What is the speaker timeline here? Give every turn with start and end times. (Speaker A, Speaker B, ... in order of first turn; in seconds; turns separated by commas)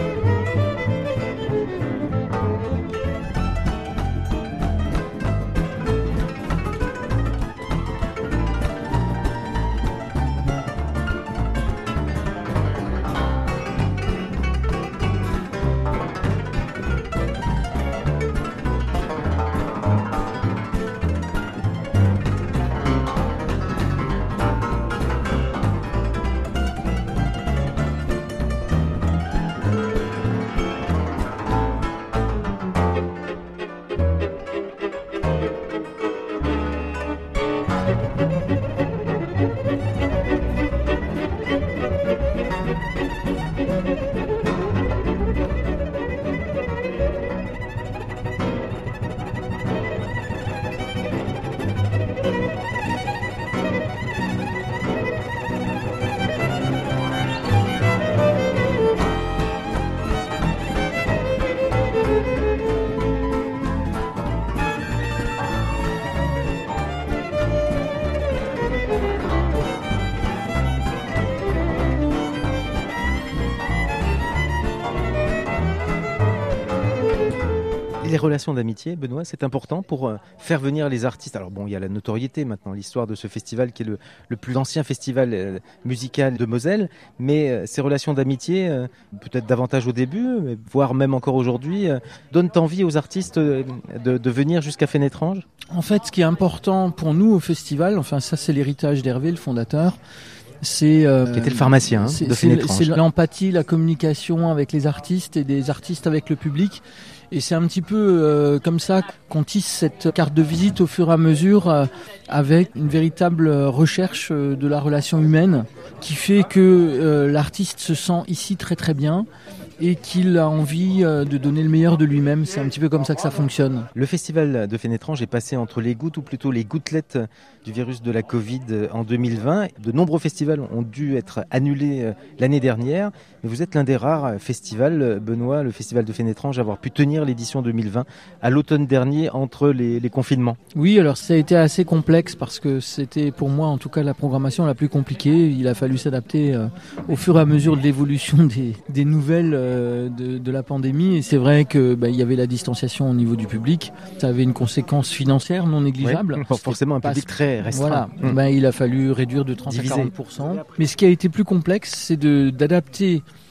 Speaker A: 78.0-95.5, Speaker B: 95.7-100.0, Speaker B: 100.6-119.3, Speaker A: 101.3-103.0, Speaker B: 119.8-123.9, Speaker A: 123.9-140.6, Speaker B: 140.7-163.2, Speaker A: 156.0-158.4, Speaker A: 159.7-160.1